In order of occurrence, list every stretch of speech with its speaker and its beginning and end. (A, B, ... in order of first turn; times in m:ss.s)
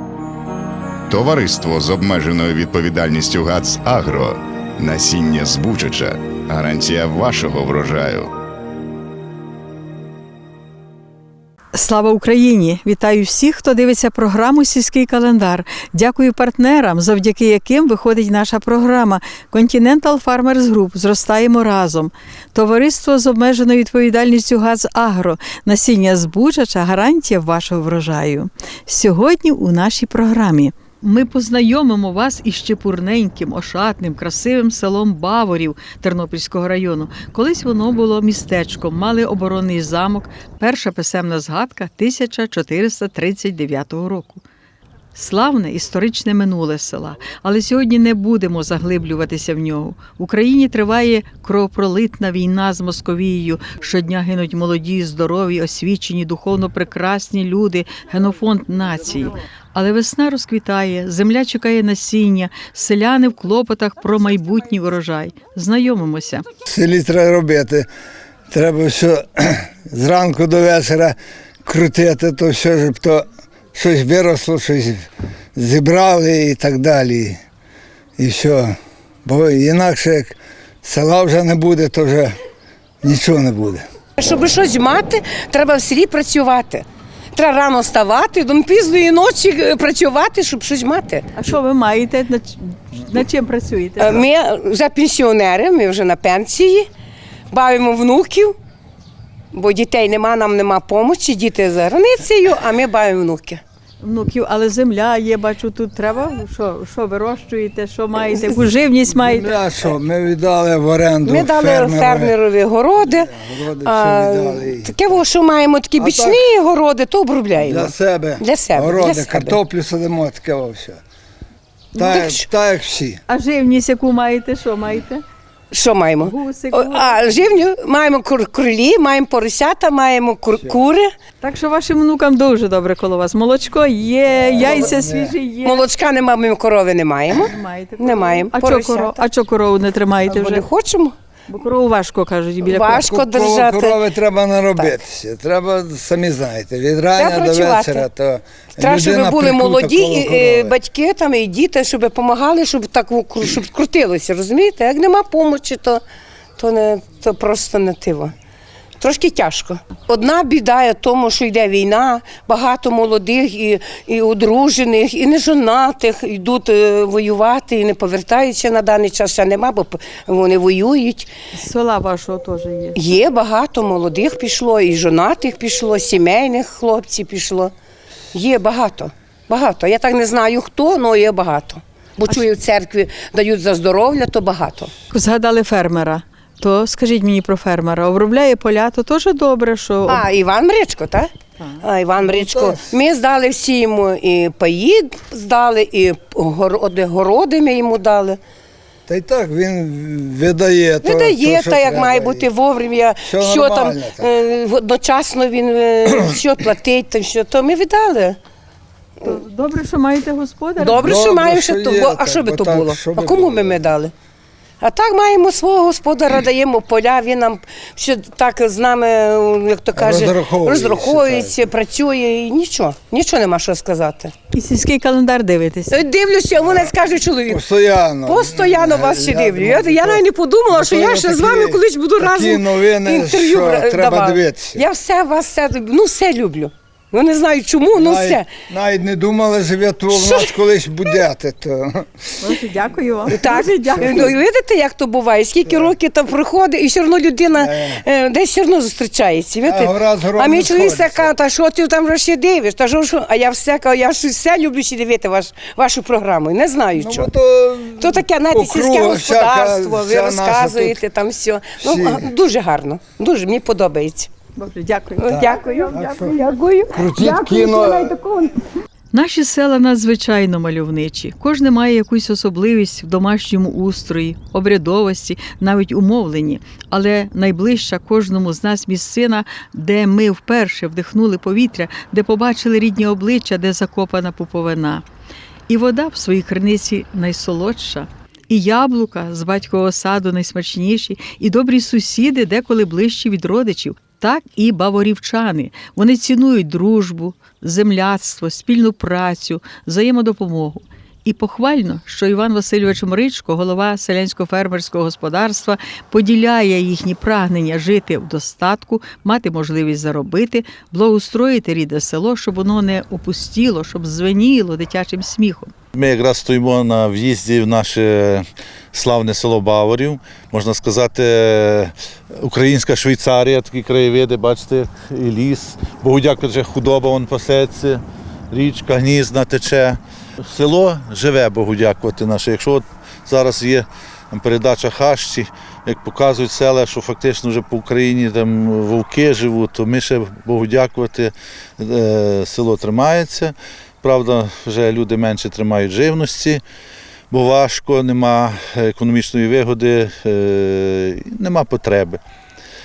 0:01.1-0:08.3 A
0:11.7-0:44.4 B
0:45.1-1:06.4 B
1:06.6-1:07.9 C
1:08.5-1:17.4 C
1:18.2-1:22.3 C
1:23.0-1:23.8 C
1:24.2-1:31.3 D
1:31.3-1:34.2 B
1:34.0-1:36.9 D
1:37.5-1:38.6 D
1:39.5-1:43.6 D
1:44.0-1:49.6 B
1:49.1-1:52.3 C
1:51.2-1:59.6 D
1:53.0-1:55.2 C
1:56.0-1:56.4 C
1:57.6-2:01.0 C
2:02.0-2:03.2 C
2:02.0-2:02.5 D
2:03.3-2:05.2 B
2:05.7-2:11.1 D
2:06.2-2:07.4 B
2:11.4-2:15.9 B
2:14.3-2:15.4 C
2:14.6-2:15.0 D
2:15.6-2:19.2 D
2:17.3-2:20.6 B
2:20.2-2:21.1 D
2:21.5-2:23.2 B
2:22.6-2:24.1 D
2:23.2-2:30.7 C
2:24.7-2:25.0 D
2:27.2-2:28.1 D
2:28.8-2:36.0 D
2:36.6-2:38.3 D
2:39.0-2:51.3 D
2:51.5-2:53.0 B
2:53.0-2:57.7 D
2:58.3-3:04.9 D
3:05.1-3:10.2 B
3:10.1-3:18.4 D
3:11.6-3:11.8 B
3:12.2-3:13.0 C
3:19.1-3:22.5 C
3:21.0-3:28.4 D
3:23.2-3:24.3 C
3:29.2-3:31.0 B
3:30.8-3:34.1 D
3:31.0-3:33.8 C
3:34.8-3:44.3 D
3:39.9-3:41.6 C
3:44.5-3:46.0 B
3:45.9-3:47.6 D
3:46.6-3:54.8 C
3:48.2-3:58.6 D
3:57.9-4:02.1 C
4:00.1-4:00.6 D
4:02.4-4:04.2 B
4:03.3-4:17.3 D
4:03.8-4:04.3 C
4:05.6-4:05.9 C
4:07.5-4:08.0 C
4:09.6-4:11.3 C
4:16.9-4:21.0 C
4:18.0-4:24.3 D
4:21.8-4:22.2 C
4:24.6-4:26.4 B
4:25.2-4:28.6 D
4:26.0-4:26.3 C
4:26.9-4:28.2 C
4:29.1-4:45.0 B
4:45.7-5:15.7 B
5:15.9-5:46.6 E
5:47.3-5:52.2 E